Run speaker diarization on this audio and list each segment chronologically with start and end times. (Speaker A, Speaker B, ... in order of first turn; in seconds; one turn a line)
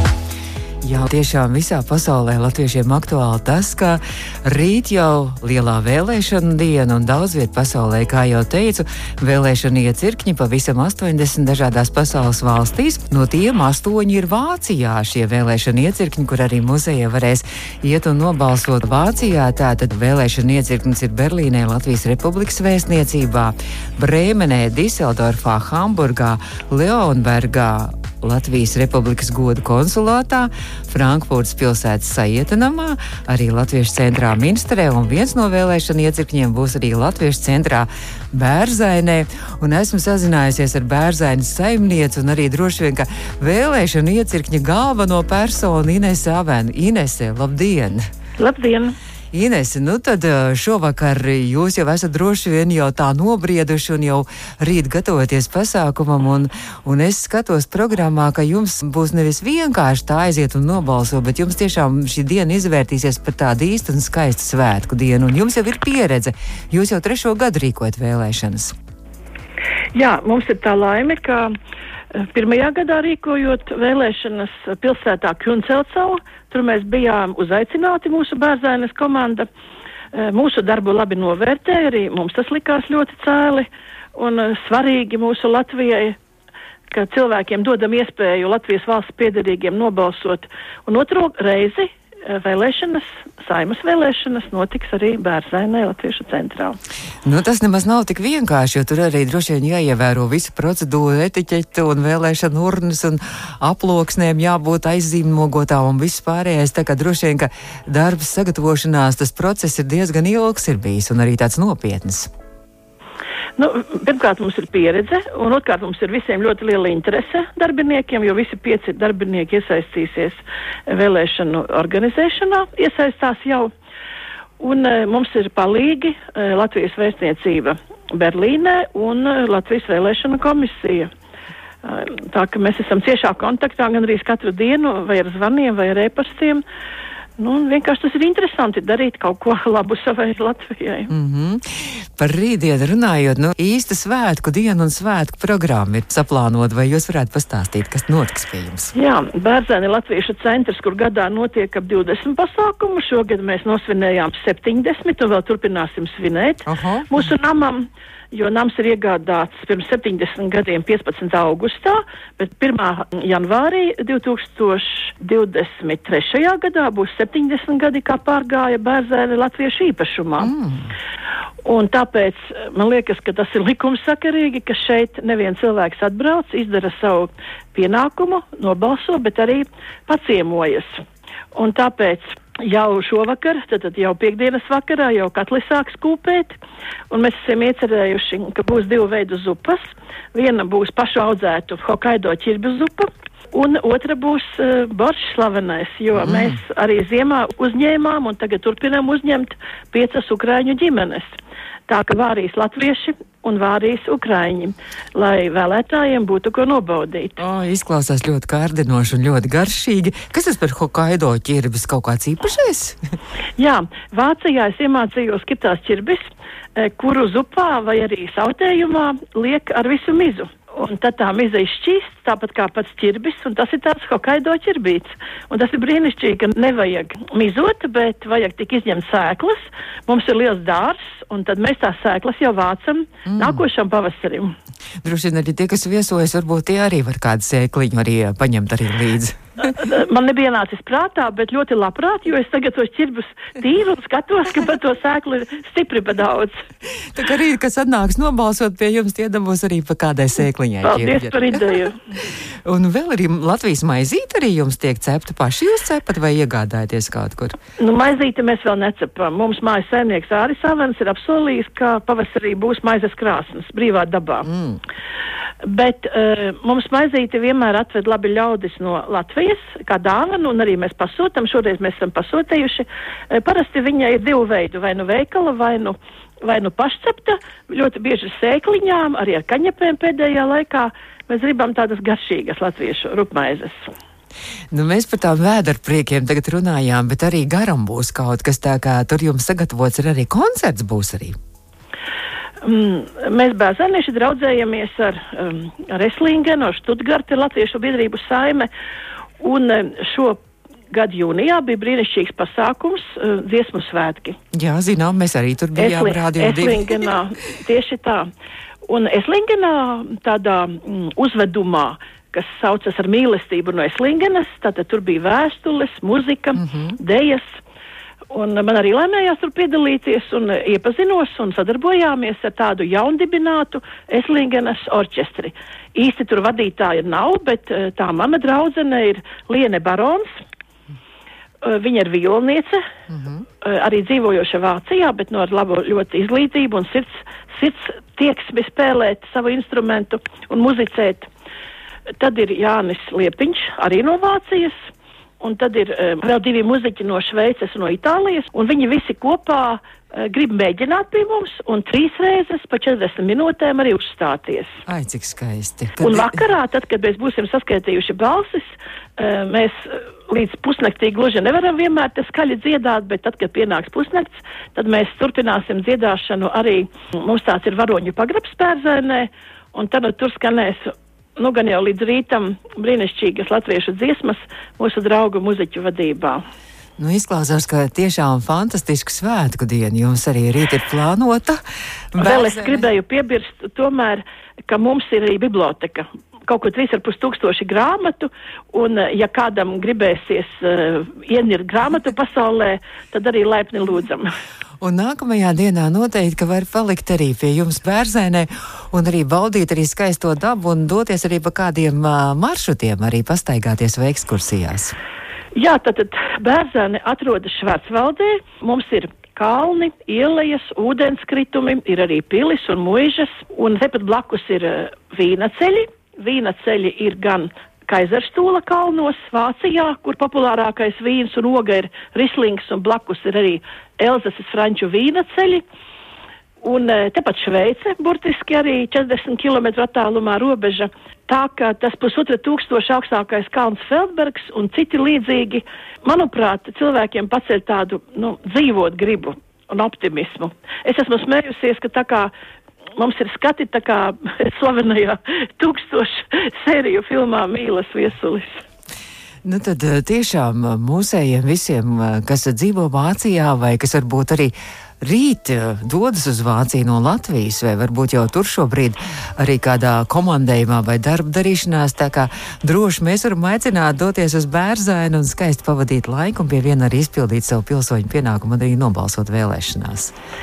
Speaker A: 0.8-48.1
Speaker B: 48.4-49.0
Speaker A: 49.3-68.8
Speaker B: 69.9-71.5
Speaker B: 72.1-79.5
Speaker B: 80.1-86.2
Speaker B: 86.9-96.8
Speaker A: 97.2-112.3
Speaker B: 113.6-123.7
Speaker B: 124.6-131.1
Speaker B: 131.8-136.6
Speaker B: 137.4-141.1
Speaker A: 141.1-148.9
Speaker B: 148.9-170.5
Speaker A: 156.7-157.2
Speaker A: 170.4-170.9
Speaker B: 171.7-181.0
Speaker B: 181.5-186.6
Speaker B: 187.1-201.4
Speaker A: 196.2-196.6
Speaker B: 201.9-207.4
Speaker A: 207.4-213.0
Speaker B: 213.6-216.2
Speaker B: 216.8-234.6
Speaker A: 233.3-233.6
Speaker A: 235.0-239.8
Speaker B: 239.7-246.6
Speaker A: 246.9-257.6
Speaker B: 250.8-252.0
Speaker B: 257.8-264.5
Speaker A: 264.5-264.8
Speaker B: 265.6-283.9
Speaker A: 284.7-291.4
Speaker B: 292.6-298.7
Speaker B: 299.4-300.4
Speaker B: 300.9-304.4
Speaker A: 304.5-307.1
Speaker B: 305.8-308.3
Speaker B: 308.9-317.6
Speaker A: 316.6-317.0
Speaker B: 318.3-330.3
Speaker B: 331.6-332.8
Speaker A: 333.1-333.4
Speaker B: 333.6-341.3
Speaker B: 342.2-344.9
Speaker B: 345.4-354.8
Speaker A: 354.9-356.4
Speaker B: 356.0-376.4
Speaker A: 377.0-381.6
Speaker A: 382.1-382.9
Speaker B: 382.2-394.3
Speaker A: 394.8-405.0
Speaker B: 405.6-425.6
Speaker B: 426.6-442.3
Speaker B: 443.0-448.6
Speaker A: 449.4-470.1